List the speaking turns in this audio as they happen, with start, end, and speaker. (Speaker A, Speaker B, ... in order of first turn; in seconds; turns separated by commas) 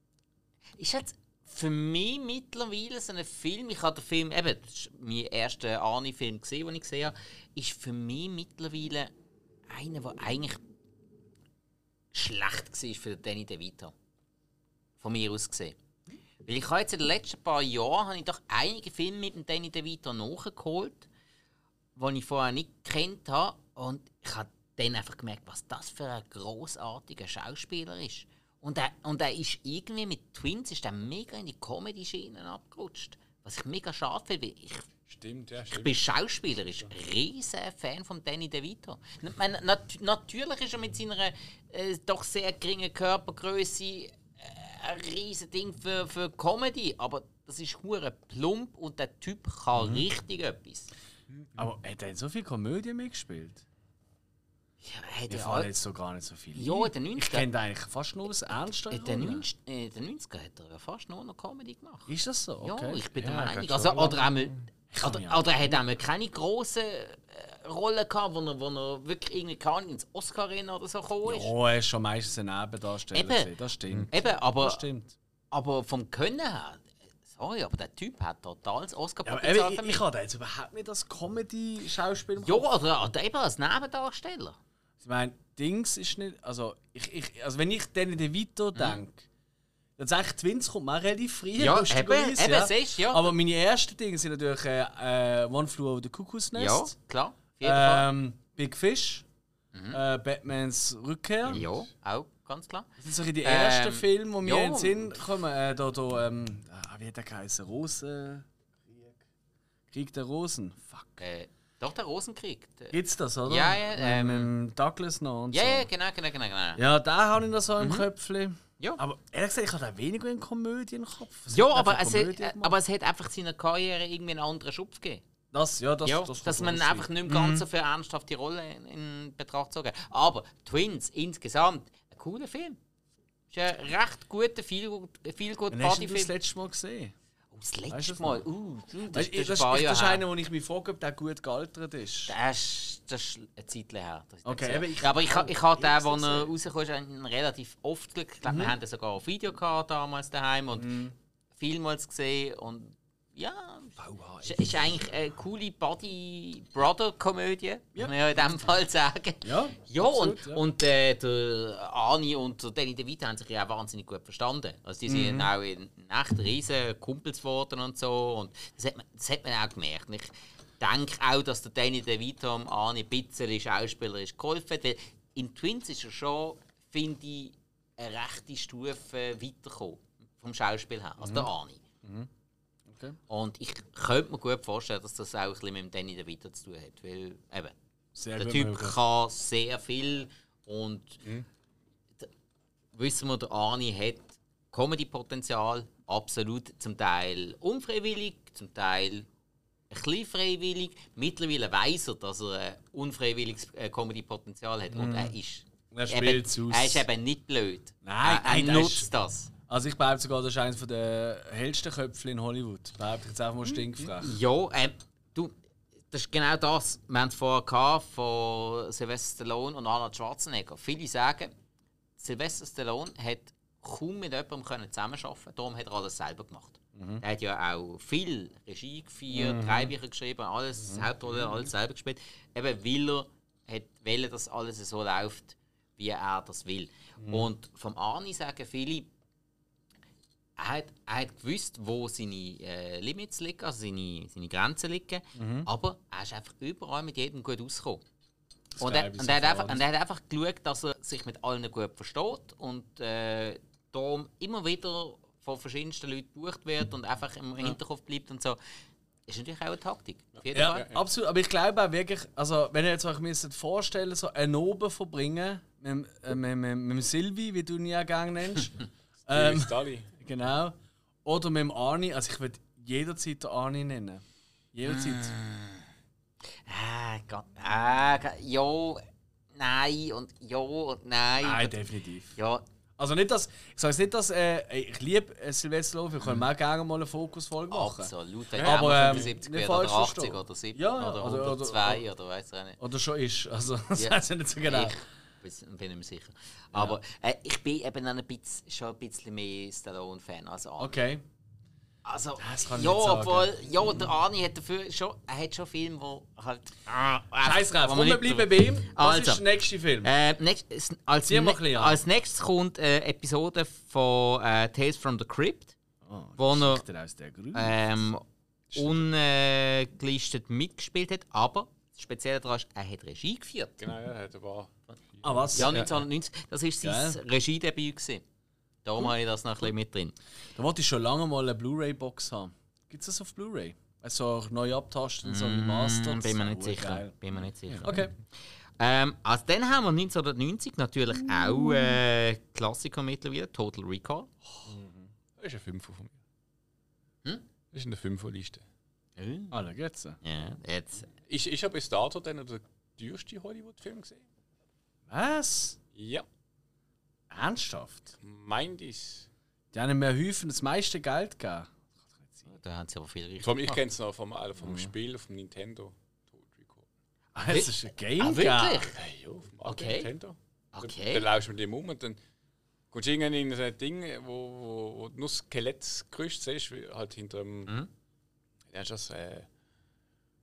Speaker A: 0.8-9.1, Speaker A: 9.7-10.6, Speaker A: 12.1-13.9, Speaker A: 15.0-15.8, Speaker A: 16.4-21.1, Speaker A: 22.0-34.9, Speaker B: 35.1-36.0, Speaker A: 35.7-50.9, Speaker C: 49.8-50.0, Speaker C: 51.6-53.6, Speaker A: 54.8-55.7, Speaker C: 55.3-59.4, Speaker A: 56.5-57.5, Speaker A: 58.9-71.5, Speaker C: 62.1-64.2, Speaker B: 63.2-64.3, Speaker C: 64.9-65.5, Speaker C: 71.2-75.2, Speaker A: 73.1-73.5, Speaker A: 74.1-74.8, Speaker A: 75.5-80.0, Speaker C: 79.2-82.7, Speaker A: 82.4-84.6, Speaker C: 85.0-89.3, Speaker C: 90.0-96.9, Speaker A: 91.6-93.3, Speaker A: 96.5-98.1, Speaker C: 97.6-99.3, Speaker A: 99.7-100.0, Speaker C: 99.9-101.6, Speaker A: 101.5-102.9, Speaker B: 101.5-101.8, Speaker C: 103.0-109.3, Speaker A: 103.4-105.1, Speaker C: 109.9-111.2, Speaker A: 111.2-113.0, Speaker C: 112.9-115.9, Speaker A: 113.5-114.5, Speaker A: 115.5-116.8, Speaker C: 116.8-122.8, Speaker A: 117.8-118.0, Speaker A: 121.5-125.2, Speaker C: 125.5-127.7, Speaker A: 126.0-132.8, Speaker A: 133.5-136.3, Speaker C: 135.7-137.1, Speaker A: 137.5-140.2, Speaker C: 137.9-138.4, Speaker C: 139.1-142.3, Speaker A: 142.3-181.8, Speaker C: 144.4-146.5, Speaker C: 148.4-148.8, Speaker C: 150.8-151.1, Speaker B: 154.0-154.8, Speaker C: 159.4-160.6, Speaker C: 165.1-165.5, Speaker C: 181.2-181.5, Speaker C: 182.0-182.3, Speaker C: 182.9-183.2, Speaker A: 183.3-187.8, Speaker C: 188.2-189.0, Speaker A: 188.4-191.2, Speaker A: 192.9-199.3, Speaker A: 199.9-209.5, Speaker C: 204.9-205.3, Speaker C: 205.9-207.1, Speaker C: 208.0-209.1, Speaker C: 209.7-214.3, Speaker A: 214.2-215.5, Speaker A: 216.1-221.5, Speaker A: 222.2-239.1, Speaker C: 226.9-227.2, Speaker C: 229.3-229.9, Speaker C: 237.2-237.5, Speaker A: 240.6-248.0, Speaker C: 245.3-245.7, Speaker C: 248.8-249.8, Speaker A: 248.8-258.6, Speaker A: 259.3-260.9, Speaker B: 260.5-261.0, Speaker C: 260.5-268.8, Speaker C: 269.3-275.3, Speaker B: 269.3-270.1, Speaker A: 274.9-275.9, Speaker A: 276.6-279.0, Speaker A: 279.6-281.8, Speaker C: 281.4-282.4, Speaker A: 282.4-282.6, Speaker C: 283.0-292.0, Speaker A: 287.7-292.8, Speaker B: 288.6-289.3, Speaker C: 292.8-295.0, Speaker A: 294.0-300.9, Speaker C: 300.8-301.2, Speaker A: 302.1-309.4, Speaker C: 302.4-303.6, Speaker C: 307.4-310.1, Speaker A: 310.0-315.8, Speaker C: 311.3-312.0, Speaker C: 316.0-317.8, Speaker A: 316.4-316.8, Speaker A: 317.6-318.2, Speaker B: 318.7-319.1, Speaker A: 318.8-323.8, Speaker B: 323.8-325.9, Speaker C: 325.2-325.8, Speaker A: 325.5-328.2, Speaker C: 326.8-327.2, Speaker A: 328.8-330.2, Speaker C: 330.6-337.1, Speaker A: 335.2-338.1, Speaker C: 337.8-338.1, Speaker A: 338.8-344.3, Speaker C: 344.6-345.1, Speaker B: 345.4-346.2, Speaker B: 347.7-348.6, Speaker A: 349.2-349.6, Speaker C: 349.5-350.2, Speaker A: 350.2-351.1, Speaker B: 351.3-354.3, Speaker C: 355.1-355.8, Speaker B: 355.9-356.3, Speaker C: 357.3-358.1, Speaker B: 358.2-359.3, Speaker C: 359.7-362.4, Speaker A: 362.5-363.8, Speaker B: 363.4-366.9, Speaker C: 364.6-364.9, Speaker C: 367.4-368.9, Speaker A: 367.5-368.9, Speaker B: 368.9-372.2, Speaker A: 369.6-370.1, Speaker A: 370.7-371.3, Speaker B: 372.9-377.7, Speaker B: 378.7-379.5